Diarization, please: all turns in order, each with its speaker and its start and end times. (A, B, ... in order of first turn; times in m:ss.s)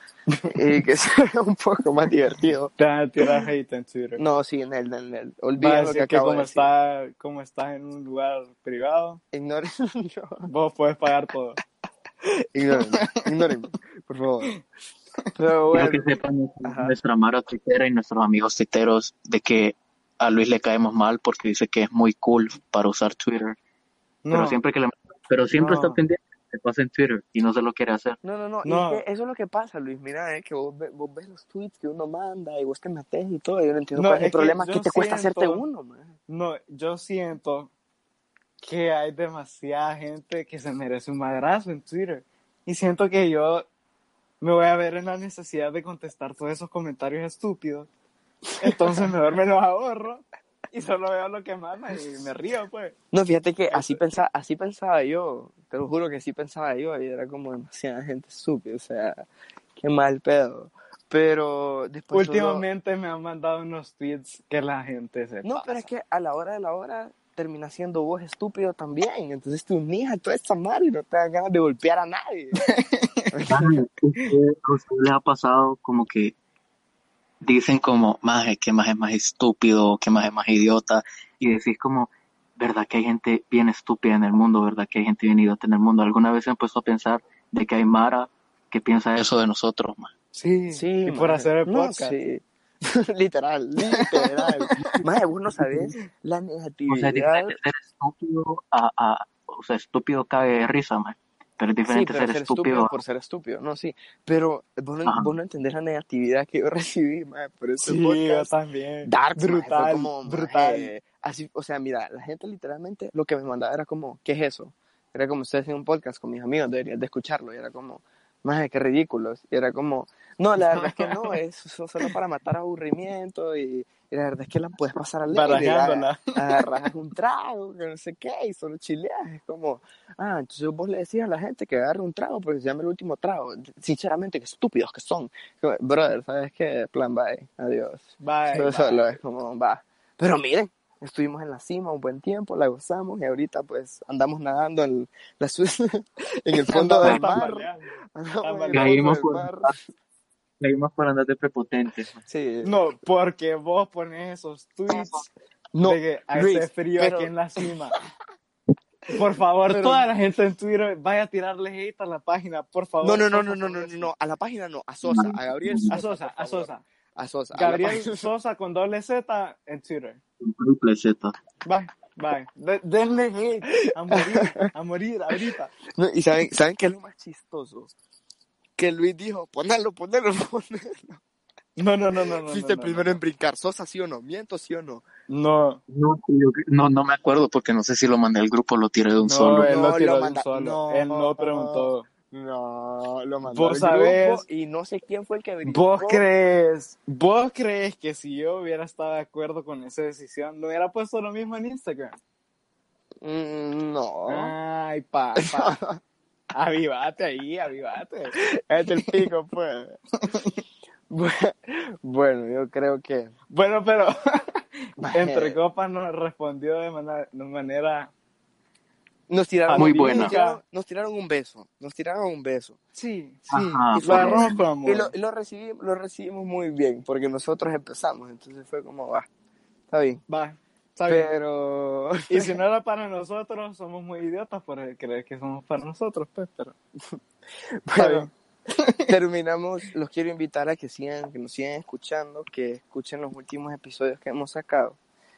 0:00.4-0:00.9 A
0:00.5-0:03.5 B
0:02.8-0:04.3 A
0:04.2-0:06.7 B
0:05.6-0:09.2 A
0:09.3-0:10.5 B
0:10.4-0:11.6 A
0:12.6-0:14.5 B
0:12.9-0:13.3 A
0:15.4-0:17.0 B
0:15.7-0:23.6 C
0:24.2-0:24.6 A
0:24.3-0:28.2 C
0:25.6-0:26.0 A
0:28.2-0:36.2 B
0:28.6-0:29.0 A
0:33.9-0:35.7 A
0:36.3-0:37.7 A
0:38.6-0:43.7 A
0:44.4-0:47.9 A
0:48.5-0:49.1 B
0:48.6-0:53.0 A
0:53.1-0:59.2 B
0:53.7-0:54.2 A
0:59.8-1:02.7 B
1:02.1-1:05.9 A
1:05.4-1:12.6 B
1:12.6-1:13.6 A
1:13.5-1:16.4 C
1:17.4-1:30.1 C
1:30.3-1:32.2 A
1:30.7-1:37.6 B
1:33.9-1:35.0 A
1:36.9-1:42.9 C
1:41.9-1:48.5 B
1:45.0-1:45.4 C
1:47.8-1:50.9 A
1:49.1-2:29.9 B
2:00.7-2:01.4 A
2:05.3-2:06.9 A
2:18.2-2:19.1 A
2:26.7-2:29.0 A
2:27.0-2:27.4 C
2:28.7-2:29.7 C
2:30.6-2:32.2 C
2:32.2-2:32.8 B
2:32.6-2:35.3 A
2:35.7-2:38.0 B
2:35.8-2:38.0 A
2:39.1-2:44.1 A
2:39.7-2:40.1 B
2:39.7-2:40.0 C
2:43.0-2:48.3 B
2:45.0-2:46.0 C
2:45.9-2:46.8 A
2:47.5-2:50.2 A
2:50.4-2:51.3 C
2:51.6-2:55.8 A
2:53.8-2:54.7 B
2:55.9-2:57.9 B
2:58.8-3:01.2 B
3:01.8-3:03.2 A
3:02.1-3:05.0 B
3:05.3-3:05.8 A
3:05.9-3:09.7 C
3:09.2-3:12.1 A
3:09.5-3:16.3 B
3:13.4-3:14.4 A
3:15.6-3:22.2 A
3:23.2-3:24.5 B
3:24.3-3:25.8 A
3:25.4-3:26.0 B
3:26.5-3:28.3 A
3:28.4-3:30.0 B
3:29.0-3:29.3 A
3:31.1-3:33.3 B
3:33.5-3:38.1 A
3:35.0-3:35.6 B
3:39.3-3:42.8 B
3:39.7-3:40.6 A
3:39.7-3:40.4 C
3:42.9-3:43.5 A
3:43.5-3:44.6 C
3:43.5-3:49.3 B
3:44.1-3:45.1 A
3:49.9-3:50.2 B
3:50.3-3:51.3 A
3:51.1-3:52.6 B
3:52.3-3:56.7 A
3:57.9-3:58.3 B
3:58.0-3:59.1 A
3:59.1-4:05.0 B